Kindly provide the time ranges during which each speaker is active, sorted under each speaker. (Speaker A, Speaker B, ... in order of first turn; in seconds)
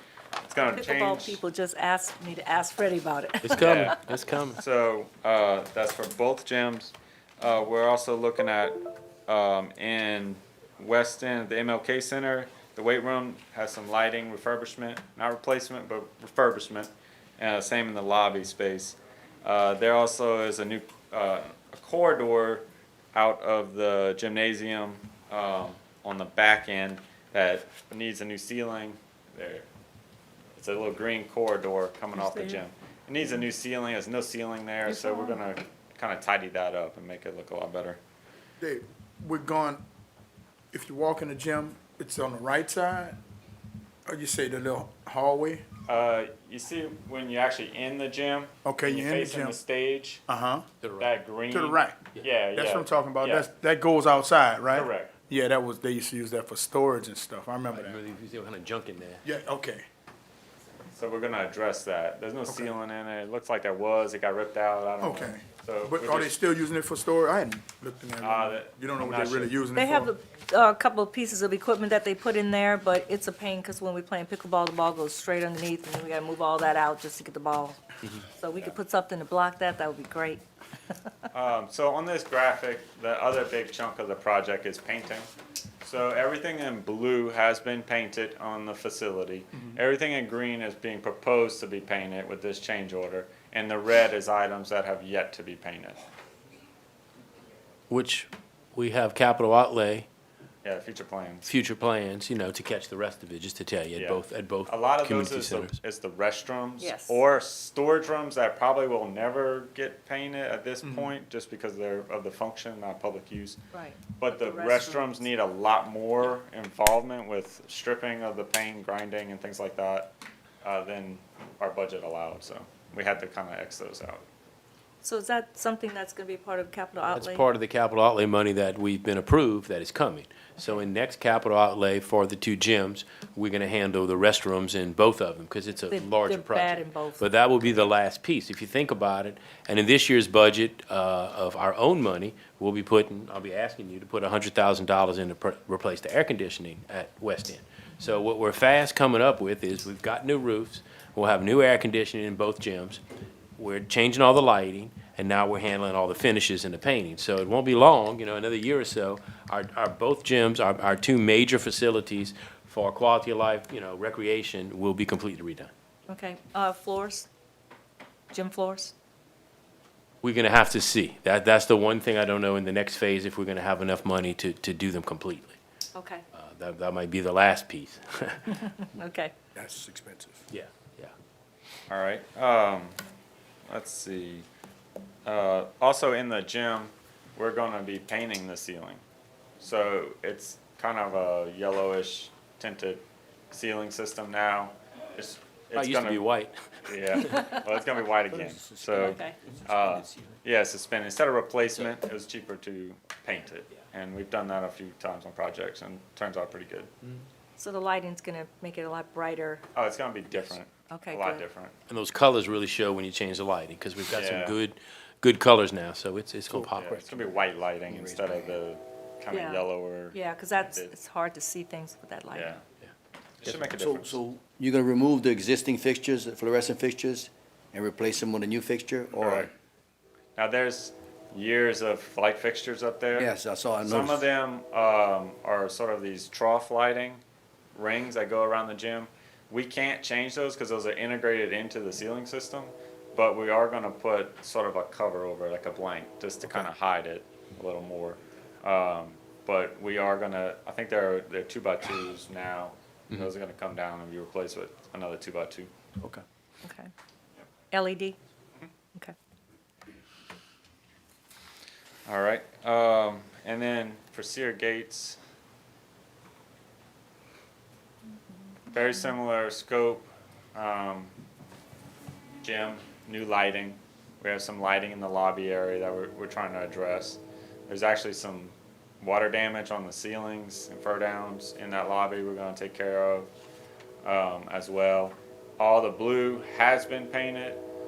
Speaker A: 0.4-1.4, 3.5-4.0, 4.5-29.6, 30.6-38.0, 45.9-50.2, 51.0-53.5, 54.7-55.1, 60.9-66.3, 68.2-69.5, 81.3-85.3, 85.8-96.0, 100.6-101.5, 103.9-113.6, 114.2-120.1, 120.6-124.2, 181.9-183.0, 183.7-184.4, 185.2-189.0, 189.6-196.2, 196.8-206.9, 209.7-211.7, 214.1-214.6, 216.8-220.9, 222.3-222.6, 223.4-224.2, 229.2-229.5, 230.4-237.2, 237.7-255.7, 262.1-265.2, 268.7-271.1, 272.4-283.3, 284.0-287.6
Speaker B: 0.7-3.9, 32.2-32.6, 69.7-77.8, 78.4-80.4, 106.8-107.2, 113.7-115.2, 125.0-127.4, 135.9-137.3, 166.1-167.3, 168.3-168.9, 175.9-176.2, 178.6-179.3, 198.9-199.4, 207.6-209.6, 210.9-211.4, 219.3-222.6, 256.6-256.9, 257.7-258.2
Speaker C: 3.4-4.6, 50.8-51.1, 57.7-59.2, 97.9-100.1, 101.4-105.8, 127.0-153.0, 153.6-165.7, 170.2-175.6, 176.3-178.6, 180.5-181.1, 195.7-197.4, 211.9-217.1
Speaker D: 38.6-39.8, 40.7-43.1, 44.1-45.6, 48.6-49.5, 50.3-50.6, 51.5-52.0, 52.5-58.0, 59.2-59.9, 62.5-62.8, 65.0-70.1, 110.8-111.1, 179.5-180.4
Speaker E: 198.3-200.0, 216.5-217.3, 217.9-218.6, 223.5-229.5, 233.1-234.2